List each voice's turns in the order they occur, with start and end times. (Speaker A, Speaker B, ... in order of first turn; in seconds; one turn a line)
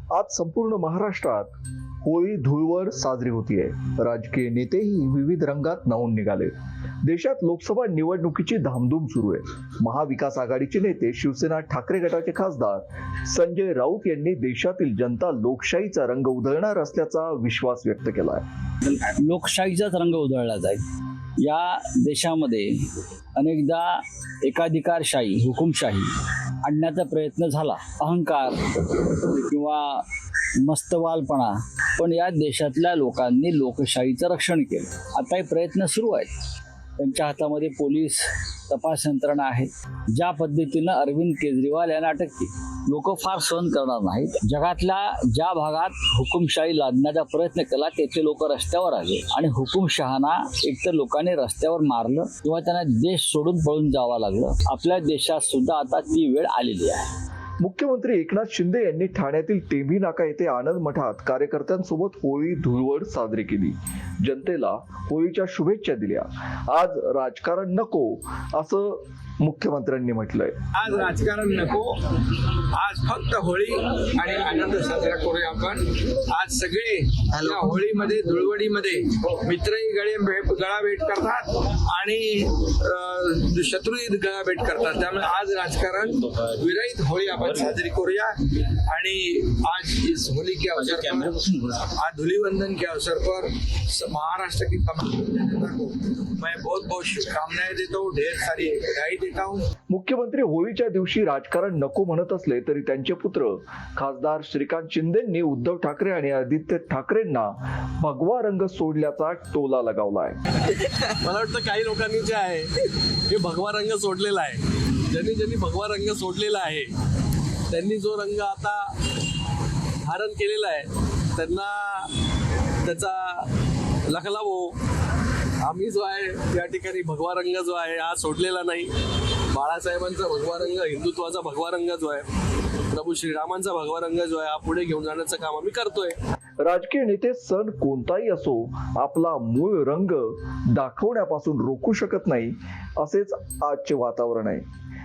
Speaker A: 0.1-18.4
Speaker B: 18.9-20.8
Speaker B: 21.4-22.7
Speaker B: 23.4-26.1
Speaker B: 26.6-28.7
Speaker B: 29.2-30.1
Speaker B: 30.6-36.3
Speaker B: 37.0-57.1
Speaker A: 57.6-70.6
Speaker C: 70.7-71.9
Speaker C: 72.6-99.7
Speaker A: 99.9-110.4
Speaker D: 110.7-116.9
Speaker D: 117.7-119.0
Speaker D: 120.0-122.1
Speaker D: 122.8-123.5
Speaker D: 124.1-124.8
Speaker D: 125.6-128.9
Speaker D: 129.5-132.3
Speaker D: 132.9-136.2
Speaker A: 136.6-144.7